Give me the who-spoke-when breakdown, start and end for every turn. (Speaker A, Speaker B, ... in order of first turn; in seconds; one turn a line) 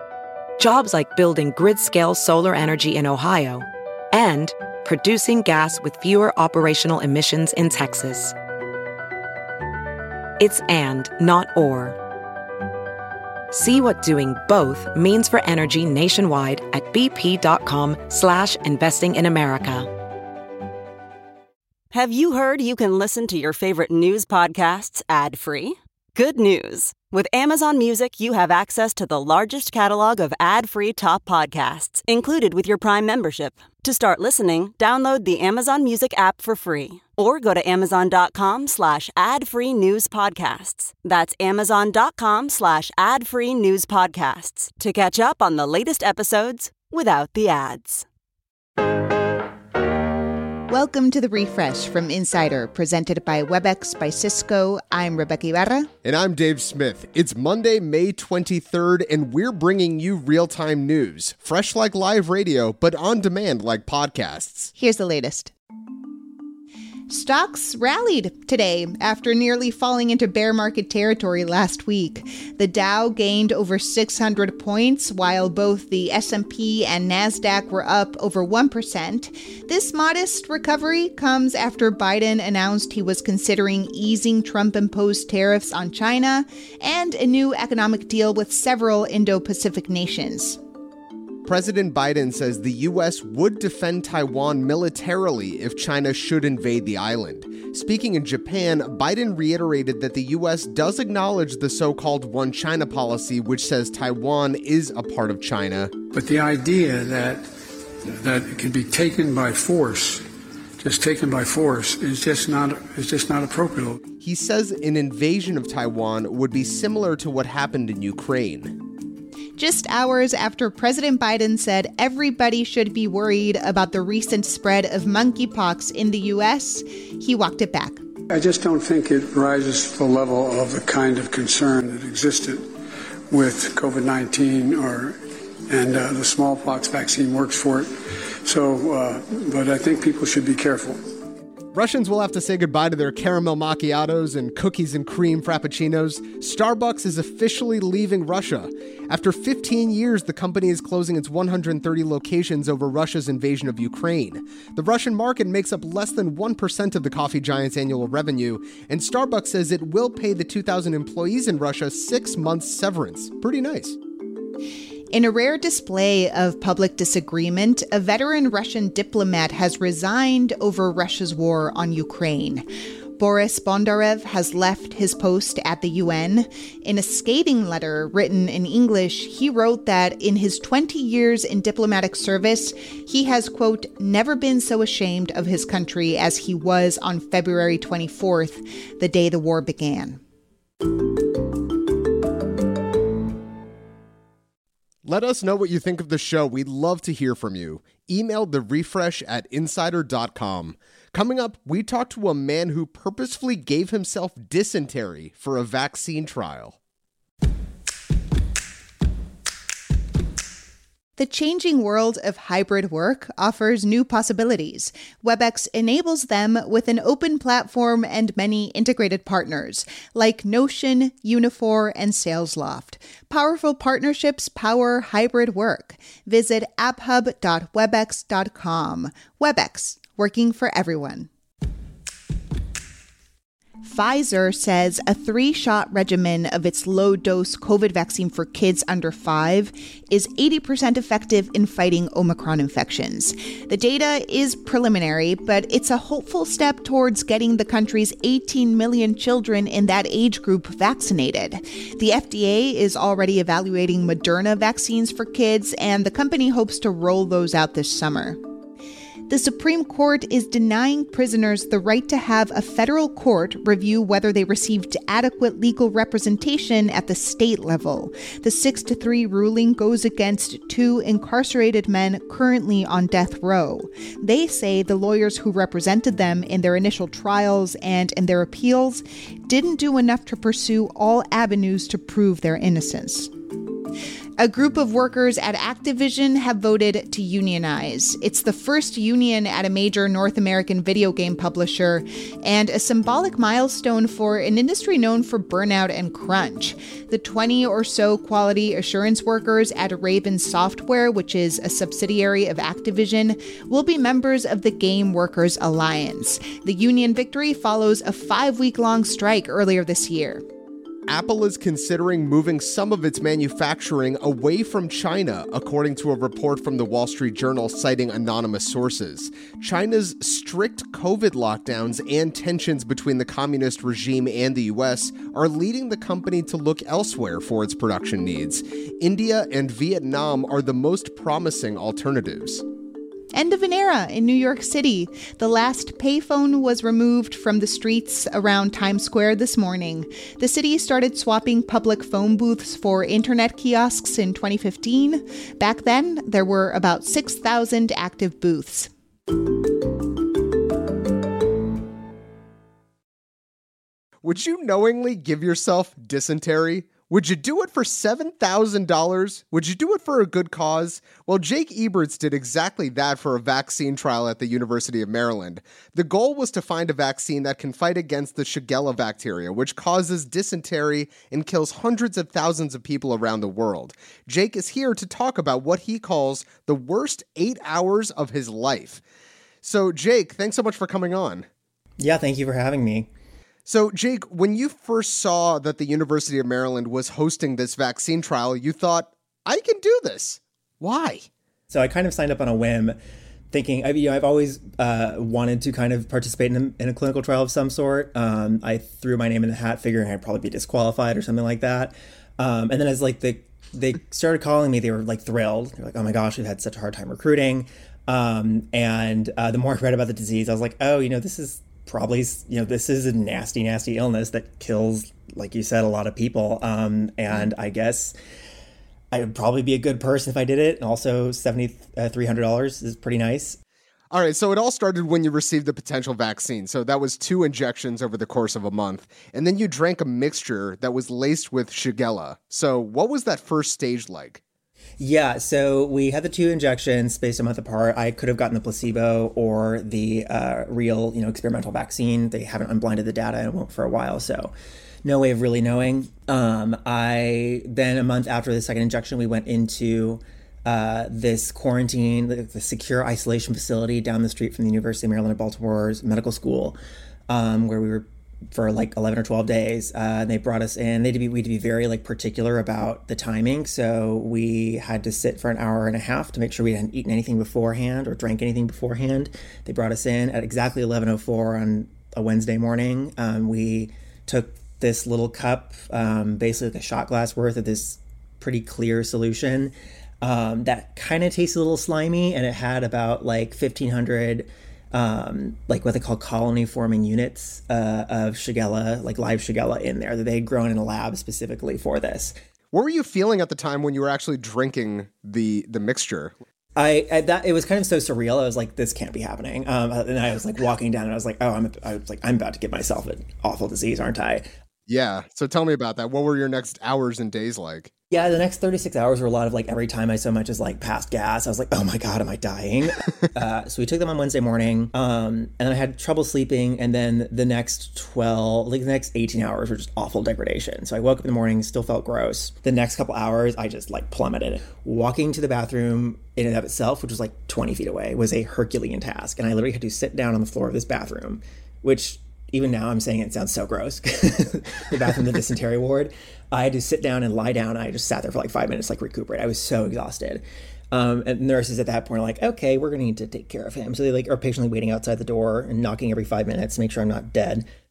Speaker A: 0.6-8.3
Speaker A: 10.4-11.9
Speaker A: 13.5-19.9
Speaker B: 21.9-48.0
Speaker C: 50.7-55.9
Speaker D: 56.0-64.7
Speaker C: 64.8-65.5
Speaker C: 67.1-90.6
Speaker D: 91.5-105.9
Speaker E: 106.1-107.4
Speaker E: 108.1-110.2
Speaker E: 110.8-114.0
Speaker D: 114.2-118.8
Speaker C: 119.6-128.0
Speaker E: 128.3-132.6
Speaker E: 133.3-137.9
Speaker E: 138.4-141.0
Speaker D: 141.7-164.0
Speaker C: 165.1-172.6
Speaker C: 173.2-190.2
Speaker D: 195.0-206.8
Speaker C: 211.2-231.3
Speaker C: 233.8-258.4
Speaker C: 259.3-283.3
Speaker C: 284.4-310.4
Speaker D: 311.1-332.6
Speaker C: 333.3-348.9
Speaker D: 354.2-379.0
Speaker D: 379.6-381.4
Speaker F: 382.0-383.1
Speaker D: 383.6-391.2
Speaker F: 391.7-392.9
Speaker F: 393.5-418.1
Speaker F: 419.1-423.6
Speaker D: 424.1-434.4
Speaker F: 435.0-444.5
Speaker F: 445.0-456.8
Speaker F: 457.3-492.3
Speaker D: 492.7-496.3
Speaker F: 496.8-504.4
Speaker D: 504.9-507.9
Speaker F: 508.1-547.6